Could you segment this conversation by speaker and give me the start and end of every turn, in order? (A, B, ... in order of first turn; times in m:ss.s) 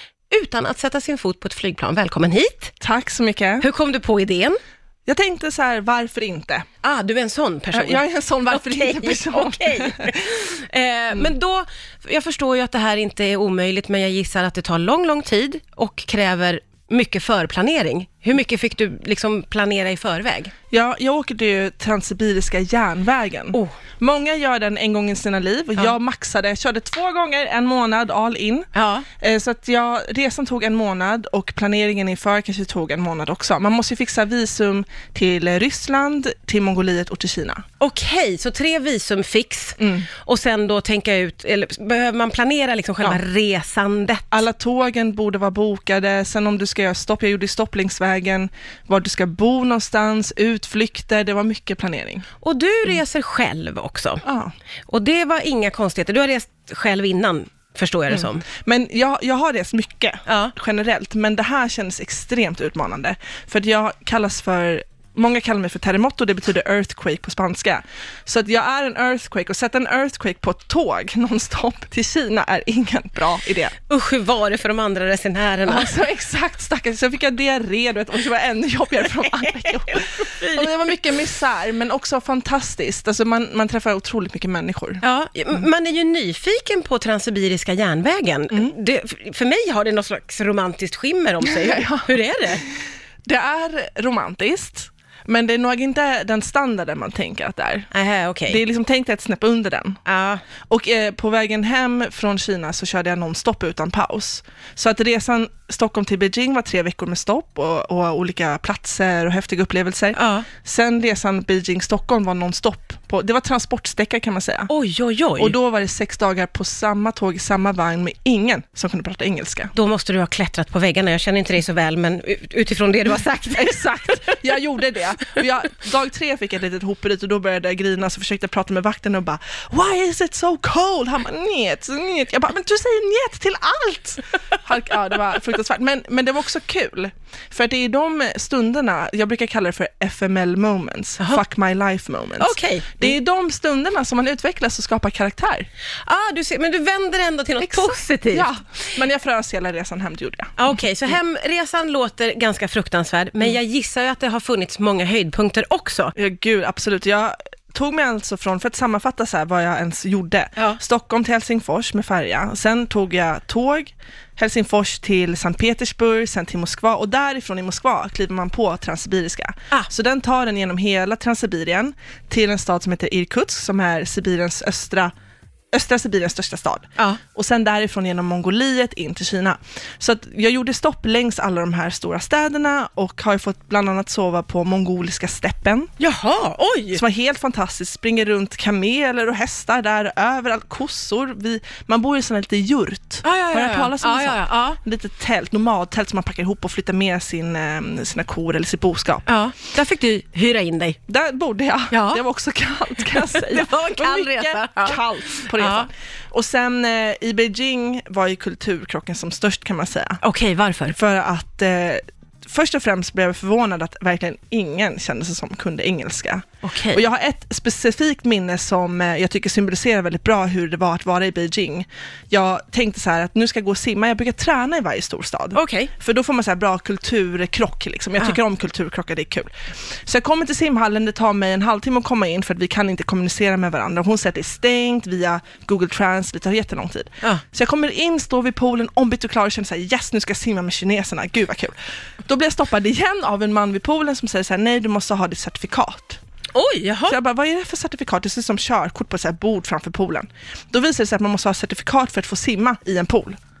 0:00.3-0:02.7 A
0:02.8-0:03.6 B
0:03.6-0:04.6 A
0:05.0-0:06.6 B
0:06.8-0:20.5 A
0:07.7-0:10.2 B
0:20.7-0:37.6 B
0:28.7-0:29.0 A
0:37.8-0:44.4 A
0:39.8-0:40.1 B
0:44.3-0:52.2 B
0:52.4-0:54.2 A
0:54.2-0:54.5 B
0:54.9-0:58.5 A
0:58.1-1:13.7 B
1:00.2-1:00.5 A
1:13.9-1:15.9 A
1:15.6-1:25.0 B
1:19.6-1:20.7 A
1:25.0-1:32.6 A
1:31.4-1:32.7 B
1:33.2-1:37.9 B
1:37.9-1:38.6 A
1:38.5-1:40.0 B
1:40.0-1:40.4 A
1:40.7-1:54.7 B
1:50.1-1:50.5 A
1:54.7-1:55.5 A
1:55.4-1:59.7 B
1:59.7-2:04.3 A
2:03.5-2:25.7 B
2:22.4-2:23.1 A
2:26.0-2:28.5 A
2:27.6-2:31.1 B
2:30.6-2:36.1 A
2:36.2-2:55.1 B
2:55.7-3:05.9 B
3:06.0-3:07.0 A
3:06.9-3:19.3 B
3:13.2-3:14.8 A
3:19.2-3:21.0 A
3:21.1-3:30.2 B
3:21.9-3:22.2 A
3:23.0-3:25.0 A
3:25.6-3:25.9 A
3:30.2-3:31.0 A
3:30.9-3:49.5 B
3:36.6-3:37.0 A
3:45.5-3:45.9 A
3:50.0-4:06.2 B
4:06.5-4:07.2 A
4:07.1-4:13.4 B